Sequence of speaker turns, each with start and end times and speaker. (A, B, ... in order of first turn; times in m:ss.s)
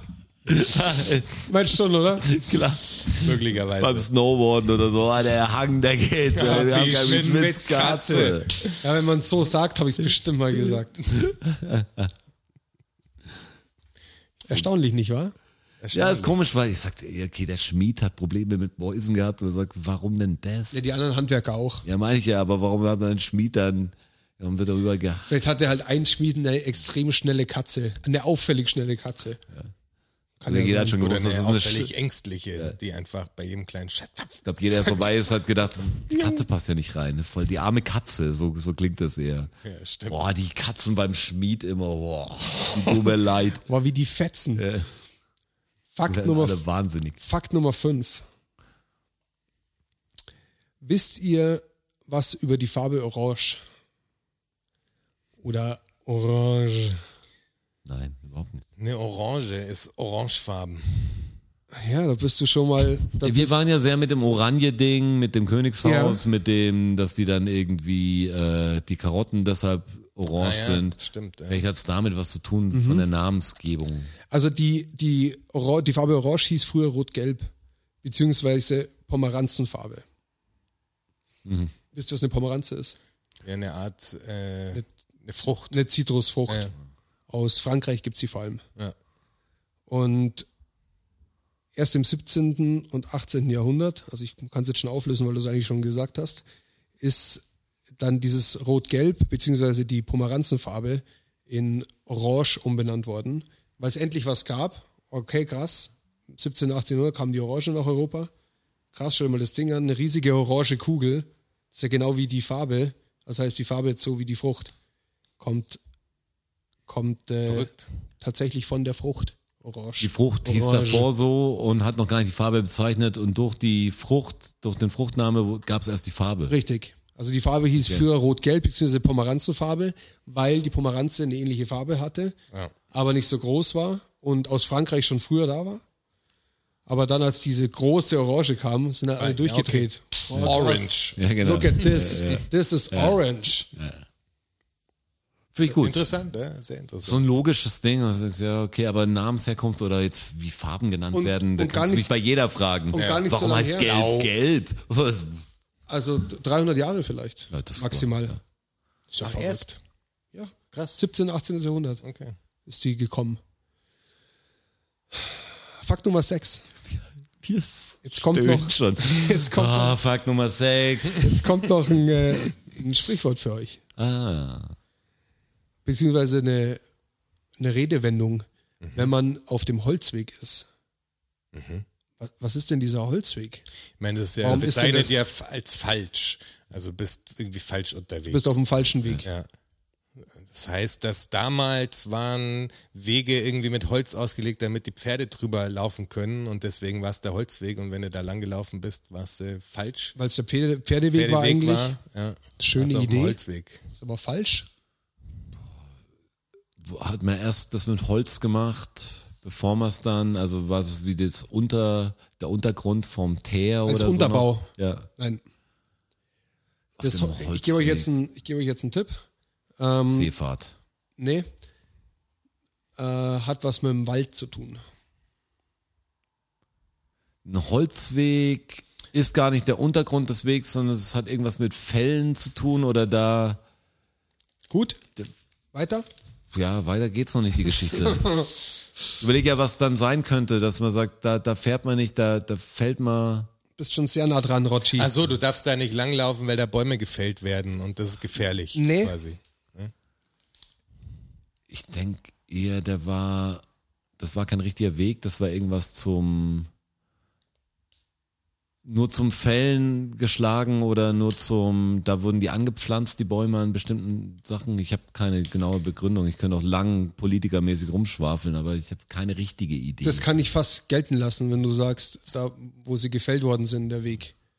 0:00.5-0:01.5 A
0:01.4-0:02.4 B
0:02.2-0:08.5 A
0:03.2-0:04.1 C
0:06.3-0:08.8 C
0:07.2-0:11.0 B
0:11.1-0:12.1 A
0:14.4-0:15.3 B
0:15.8-0:16.4 C
0:15.9-0:20.8 A
0:20.7-0:21.8 B
0:21.8-0:25.3 A
0:25.2-0:29.4 B
0:30.4-0:31.0 B
0:30.4-0:31.9 A
0:31.0-0:35.0 C
0:34.4-0:39.5 A
0:39.6-0:40.2 C
0:40.1-0:43.6 A
0:43.7-0:44.6 B
0:44.6-0:44.9 A
0:45.9-0:46.6 B
0:46.1-0:47.2 A
0:47.2-0:48.2 B
0:50.8-0:53.6 B
0:55.4-0:57.0 B
0:57.8-0:58.6 A
0:58.8-1:01.4 C
1:01.7-1:03.5 B
1:03.2-1:14.1 A
1:05.8-1:06.2 B
1:10.4-1:11.6 C
1:12.7-1:13.0 B
1:14.3-1:17.5 B
1:18.0-1:20.0 B
1:21.4-1:21.7 A
1:21.9-1:23.0 B
1:23.4-1:25.8 C
1:25.7-1:26.7 B
1:26.5-1:26.7 C
1:27.3-1:28.6 B
1:29.9-1:30.5 B
1:31.7-1:36.4 B
1:37.0-1:48.3 B
1:48.9-1:54.7 B
1:55.4-1:55.8 B
1:56.9-2:01.1 B
1:57.4-1:57.9 C
2:00.0-2:06.5 A
2:06.5-2:12.4 B
2:12.9-2:15.8 B
2:16.9-2:23.7 B
2:19.2-2:21.2 C
2:20.3-2:23.2 A
2:23.7-2:24.0 A
2:25.5-2:26.0 A
2:25.6-2:27.2 C
2:27.0-2:35.4 A
2:31.1-2:32.1 B
2:32.9-2:33.9 B
2:32.9-2:34.3 C
2:35.9-2:38.4 B
2:37.5-2:38.3 A
2:39.1-2:39.7 B
2:39.2-2:39.8 C
2:40.3-2:42.0 B
2:40.7-2:41.0 C
2:42.0-2:42.4 C
2:42.6-2:43.4 B
2:45.8-2:46.6 B
2:47.4-2:51.6 A
2:48.0-2:50.0 B
2:51.1-2:53.8 B
2:54.0-2:54.8 A
2:55.8-2:56.8 B
2:57.6-3:00.7 B
3:01.5-3:01.8 C
3:02.2-3:03.6 B
3:04.0-3:08.6 C
3:04.4-3:05.2 B
3:08.3-3:09.2 B
3:10.2-3:20.1 C
3:20.2-3:22.0 B
3:21.1-3:23.8 C
3:22.6-3:23.4 B
3:23.9-3:24.7 B
3:26.8-3:35.1 A
3:33.8-3:35.4 B
3:37.0-3:38.1 A
3:37.0-3:39.2 B
3:39.8-3:40.3 B
3:40.1-3:40.7 A
3:41.2-3:41.5 B
3:43.0-3:44.8 B
3:47.4-3:53.6 A
3:54.7-3:55.0 B
3:55.7-3:56.0 B
3:56.5-3:58.5 A
3:59.2-4:03.5 A
4:03.8-4:05.1 B
4:04.9-4:09.9 C
4:08.7-4:09.2 B
4:11.7-4:13.6 A
4:14.2-4:16.7 A
4:18.8-4:30.2 A
4:30.0-4:34.3 B